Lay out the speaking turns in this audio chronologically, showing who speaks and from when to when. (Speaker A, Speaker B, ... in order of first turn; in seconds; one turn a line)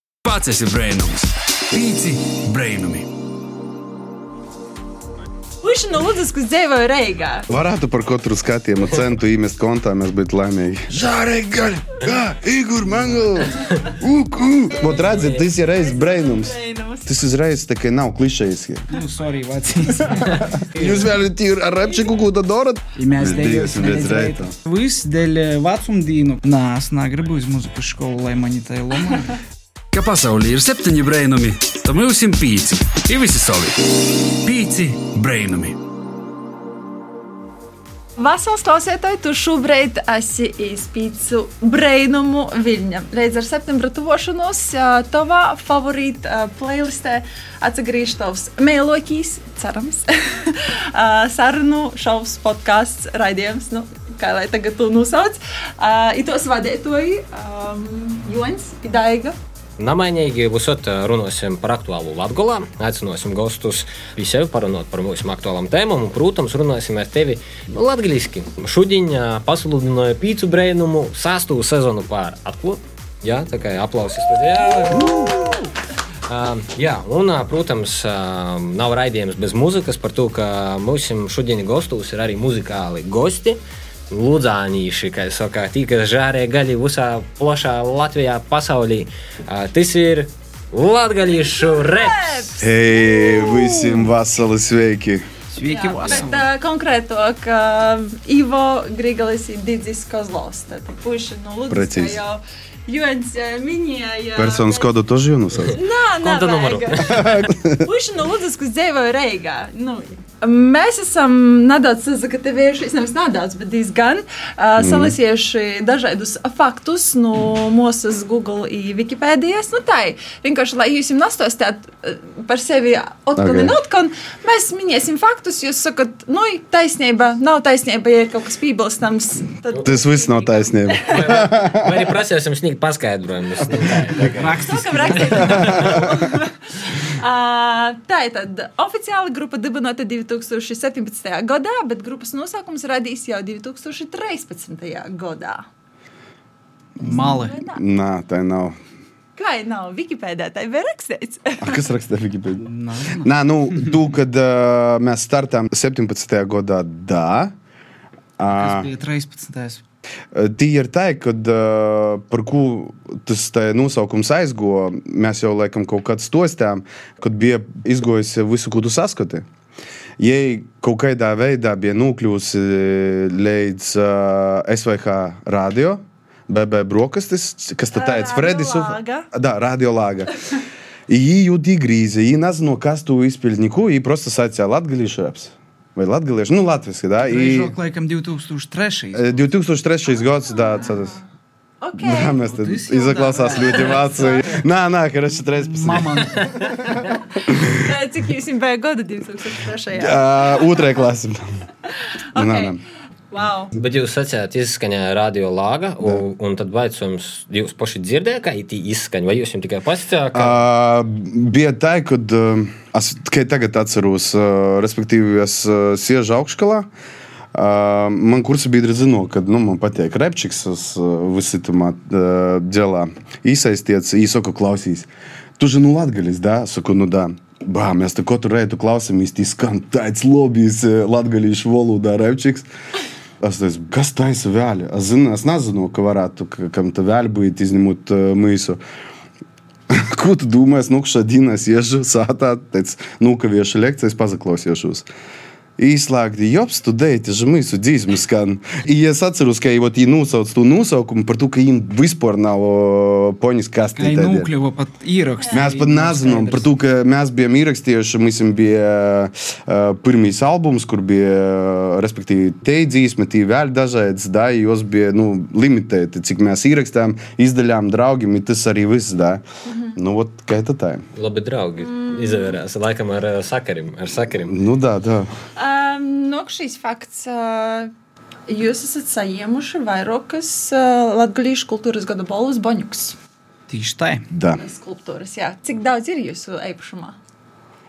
Speaker A: 0.2-3.1
Speaker B: 5.6-7.5
Speaker C: 7.5-18.9
Speaker D: 12.9-13.4
Speaker B: 14.8-17.1
Speaker E: 14.8-15.4
Speaker D: 18.9-20.6
Speaker C: 20.0-24.5
Speaker D: 22.9-29.4
Speaker A: 29.9-35.8
Speaker B: 38.2-59.4
Speaker E: 59.8-75.5
Speaker E: 76.3-92.5
Speaker B: 91.3-94.1
Speaker C: 92.6-95.3
Speaker D: 95.5-96.5
Speaker B: 95.7-104.9
Speaker C: 101.7-102.2
Speaker C: 104.3-105.8
Speaker E: 105.6-107.5
Speaker B: 105.7-131.5
Speaker C: 107.1-107.8
Speaker C: 114.8-115.2
Speaker C: 123.4-123.8
Speaker C: 129.8-132.1
Speaker E: 131.1-136.1
Speaker D: 134.2-135.9
Speaker B: 134.6-145.7
Speaker C: 135.4-136.1
Speaker D: 147.0-147.6
Speaker B: 147.0-147.8
Speaker C: 147.7-148.8
Speaker B: 149.4-151.8
Speaker C: 151.6-157.5
Speaker D: 152.6-153.3
Speaker C: 158.4-158.9
Speaker D: 158.5-159.8
Speaker C: 160.3-169.4
Speaker C: 170.2-180.3
Speaker B: 177.9-179.3
Speaker C: 181.1-187.7
Speaker D: 187.2-189.4
Speaker C: 189.1-191.2
Speaker B: 190.5-191.2
Speaker B: 191.8-192.4
Speaker C: 191.9-197.8
Speaker D: 192.4-194.5
Speaker B: 193.6-194.5
Speaker D: 195.5-196.6
Speaker B: 197.6-200.9
Speaker C: 199.9-201.4
Speaker B: 202.3-202.8
Speaker C: 202.3-202.8
Speaker B: 203.3-203.7
Speaker E: 203.8-210.6
Speaker C: 210.3-216.9
Speaker C: 217.5-232.7
Speaker C: 233.4-238.8
Speaker C: 239.9-245.1
Speaker C: 245.8-254.5
Speaker D: 253.9-256.7
Speaker B: 255.4-255.7
Speaker C: 255.5-269.4
Speaker B: 269.7-270.0
Speaker C: 270.0-271.1
Speaker E: 271.1-274.6
Speaker B: 271.8-272.6
Speaker C: 274.5-275.3
Speaker B: 275.6-277.9
Speaker B: 278.5-283.2
Speaker D: 283.7-284.3
Speaker C: 284.3-284.6
Speaker B: 284.6-287.2